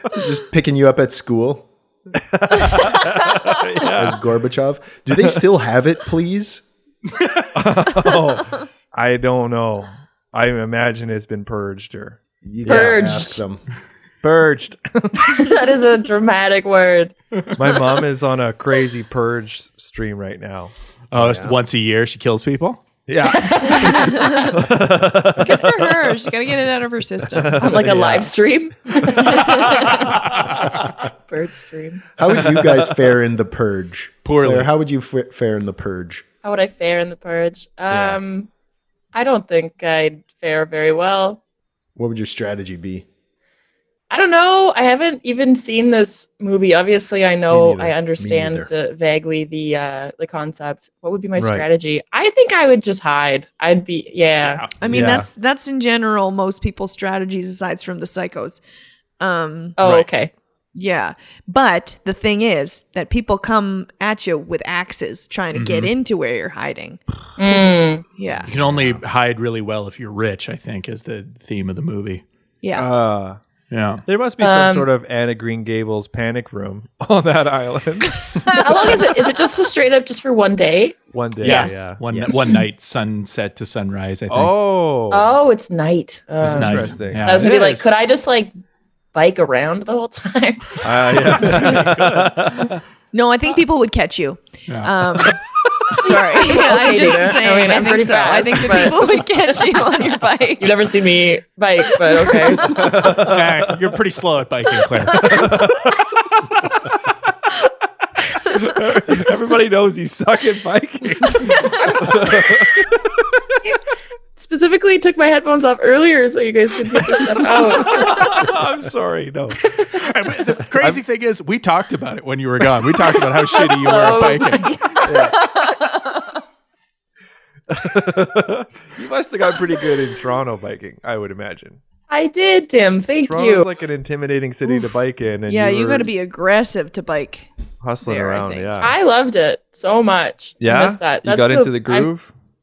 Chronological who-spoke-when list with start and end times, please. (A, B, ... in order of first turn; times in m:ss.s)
0:00.1-0:01.7 A
0:02.3-0:04.2 B
0:03.9-0:06.6 A
0:07.5-0:13.1 B
0:12.4-0:13.6 A
0:12.7-0:13.4 C
0:14.2-0:15.5 B
0:15.2-0:17.1 C
0:17.6-0:20.7 B
0:21.1-0:22.8 D
0:21.1-0:21.5 A
0:23.1-0:26.1 B
0:23.3-0:24.2 C
0:23.8-0:24.5 E
0:25.4-0:27.6 E
0:27.3-0:28.3 B
0:27.6-0:30.0 C
0:29.1-0:30.6 B
0:31.3-0:32.1 C
0:32.2-0:36.2 A
0:32.3-0:32.9 B
0:34.2-0:34.7 D
0:36.4-0:38.5 C
0:37.9-0:38.2 A
0:39.1-0:41.4 C
0:42.0-0:43.0 A
0:44.1-0:54.6 C
0:47.5-0:48.7 A
0:51.4-0:51.6 B
0:54.4-0:54.7 D
0:54.8-0:58.6 E
0:54.9-0:55.3 B
0:59.2-0:59.8 E
0:59.8-1:00.3 C
1:00.7-1:07.0 E
1:05.5-1:05.9 D
1:07.4-1:08.0 C
1:08.0-1:08.5 E
1:08.3-1:09.0 A
1:08.5-1:12.2 D
1:12.6-1:12.9 E
1:12.7-1:13.4 B
1:13.7-1:14.0 D
1:14.0-1:18.7 B
1:14.4-1:14.9 C
1:18.6-1:21.0 C
1:21.1-1:22.0 B
1:21.4-1:24.6 D
1:22.1-1:22.5 A
1:24.3-1:25.3 B
1:25.1-1:28.5 C
1:26.4-1:27.4 B
1:26.4-1:27.9 D
1:29.1-1:30.8 C
1:30.8-1:32.7 B
1:31.3-1:32.8 D
1:33.1-1:40.8 E
1:36.0-1:39.2 C
1:40.6-1:42.8 C
1:42.3-1:42.8 E
1:42.7-1:43.8 B
1:43.1-1:45.5 D
1:45.2-1:46.0 B
1:48.4-1:53.0 B
1:54.4-1:58.2 C
1:57.8-1:59.7 B
2:00.0-2:04.7 D
2:03.5-2:05.5 C
2:05.0-2:05.3 A
2:07.7-2:11.8 B
2:12.1-2:13.7 C
2:13.2-2:16.1 B
2:14.6-2:14.9 E
2:15.5-2:17.5 E
2:17.8-2:18.9 B
2:18.0-2:18.7 E
2:18.8-2:22.1 C
2:20.6-2:22.3 B